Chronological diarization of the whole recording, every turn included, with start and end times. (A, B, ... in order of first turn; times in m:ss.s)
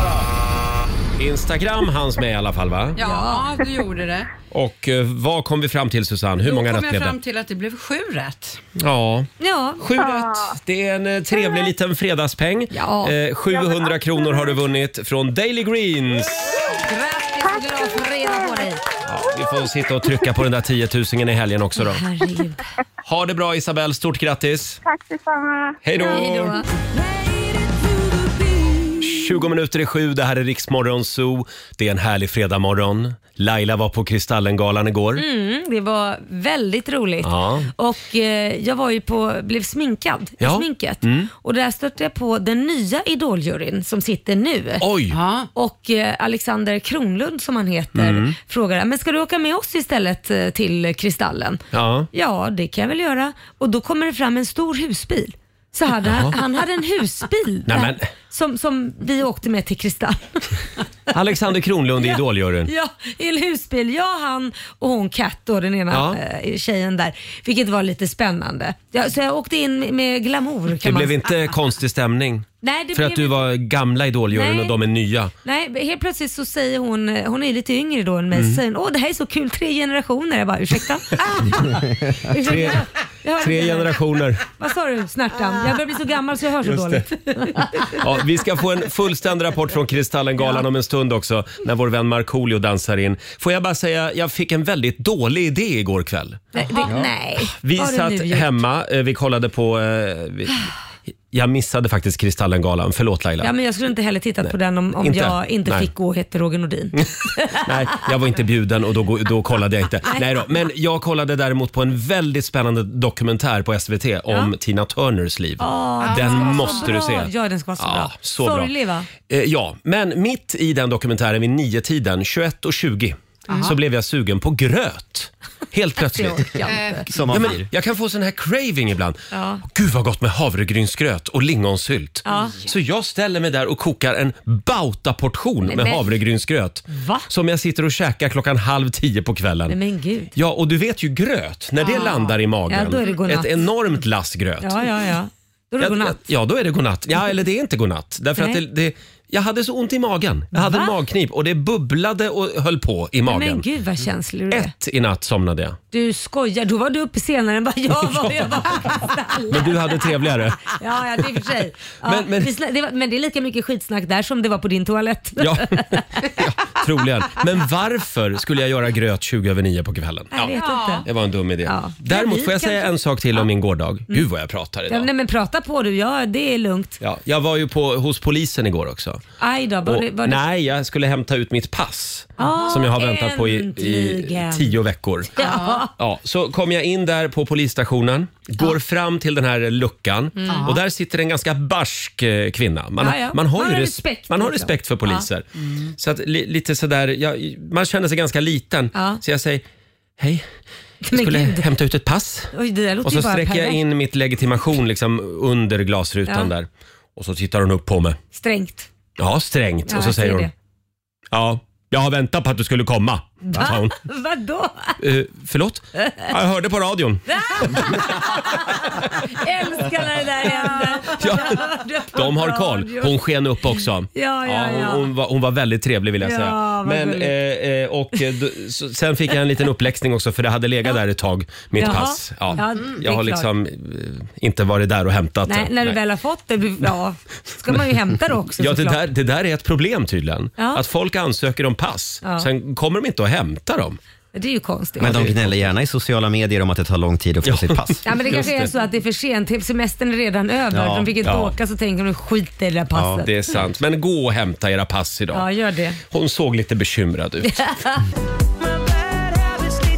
0:01.2-0:03.0 A
0:03.0-0:04.3 B
0:03.0-0:03.5 C
0:04.5-0:07.2 A
0:06.4-0:08.6 B
0:08.8-0:16.7 A
0:09.4-0:09.8 C
0:10.0-0:10.5 D
0:12.7-0:13.1 C
0:13.6-0:14.4 D
0:16.8-0:18.8 C
0:19.0-0:22.0 A
0:21.8-0:22.6 C
0:23.0-0:24.8 A
0:24.8-0:26.2 D
0:25.8-0:26.6 A
0:26.1-0:26.7 C
0:29.0-0:35.2 A
0:35.2-0:44.8 C
0:37.2-0:37.7 A
0:40.4-0:41.3 A
0:44.8-0:45.2 A
0:45.1-0:45.5 B
0:45.5-0:51.6 C
0:47.9-0:48.4 A
0:51.7-0:52.1 A
0:52.1-1:00.5 C
0:56.0-0:56.4 A
0:57.7-0:58.0 A
1:01.1-1:02.7 A
1:02.0-1:11.2 C
1:05.9-1:06.2 A
1:10.8-1:15.3 A
1:12.6-1:13.4 C
1:14.3-1:14.8 C
1:15.4-1:21.7 C
1:18.3-1:18.6 A
1:22.2-1:23.9 C
1:22.3-1:22.9 A
1:23.4-1:24.4 A
1:24.5-1:28.0 C
1:26.6-1:27.1 A
1:27.8-1:36.4 A
1:36.5-1:38.5 C
1:36.9-1:37.1 E
1:37.4-1:40.7 A
1:41.3-1:43.5 A
1:43.4-1:47.6 C
1:44.4-1:45.9 A
1:47.0-1:58.7 A
1:55.6-1:59.1 C
1:56.0-1:56.9 B
1:59.2-2:06.7 A
2:03.5-2:03.7 B
2:06.1-2:07.1 C
2:06.7-2:07.0 B
2:07.0-2:07.7 E
2:07.3-2:19.8 A
2:09.3-2:09.6 C
2:12.2-2:12.6 C
2:12.3-2:12.7 B
2:15.6-2:16.0 C
2:16.9-2:17.3 C
2:19.7-2:20.3 C
2:20.4-2:24.8 A
2:21.8-2:22.4 B
2:22.7-2:23.5 C
2:24.6-2:26.2 C
2:25.8-2:33.6 A
2:30.5-2:30.9 C
2:33.3-2:34.7 C
2:34.5-2:35.8 A
2:35.9-2:40.1 C
2:38.0-2:38.9 A
2:39.5-2:40.8 A
2:40.7-2:46.0 C
2:42.0-2:42.5 A
2:45.4-2:55.1 A
2:50.3-2:51.1 C
2:50.5-2:51.1 B
2:51.6-2:53.4 C
2:54.9-2:57.0 C
2:57.0-2:59.2 A
2:59.4-3:00.4 C
2:59.9-3:05.4 A
3:02.4-3:04.8 C
3:02.4-3:02.7 B
3:05.4-3:05.9 C
3:05.4-3:05.9 B
3:06.0-3:19.6 A
3:10.4-3:10.6 C
3:10.5-3:10.8 B
3:13.0-3:15.2 C
3:15.6-3:15.9 B
3:18.9-3:19.2 C
3:20.2-3:20.4 A
3:21.0-3:21.6 C
3:21.1-3:22.5 A
3:22.5-3:23.8 C
3:23.0-3:28.2 A
3:28.3-3:28.9 C
3:29.2-3:30.5 A
3:29.9-3:30.5 C
3:31.3-3:34.0 A
3:33.4-3:35.0 C
3:35.0-3:38.5 A
3:36.0-3:36.3 C
3:37.3-3:43.2 C
3:41.2-3:56.0 A
3:44.1-3:45.1 C
3:46.2-3:47.3 C
3:51.8-3:53.5 C
3:55.4-3:59.0 C
3:58.6-4:04.0 A
4:04.3-4:05.3 C
4:05.0-4:05.7 A
4:05.0-4:08.0 E
4:07.4-4:08.7 A
4:08.0-4:13.3 C
4:10.7-4:11.2 E
4:11.2-4:11.5 A
4:12.9-4:13.2 E
4:13.2-4:15.4 A
4:15.3-4:16.0 C
4:16.1-4:17.8 A
4:17.5-4:18.0 C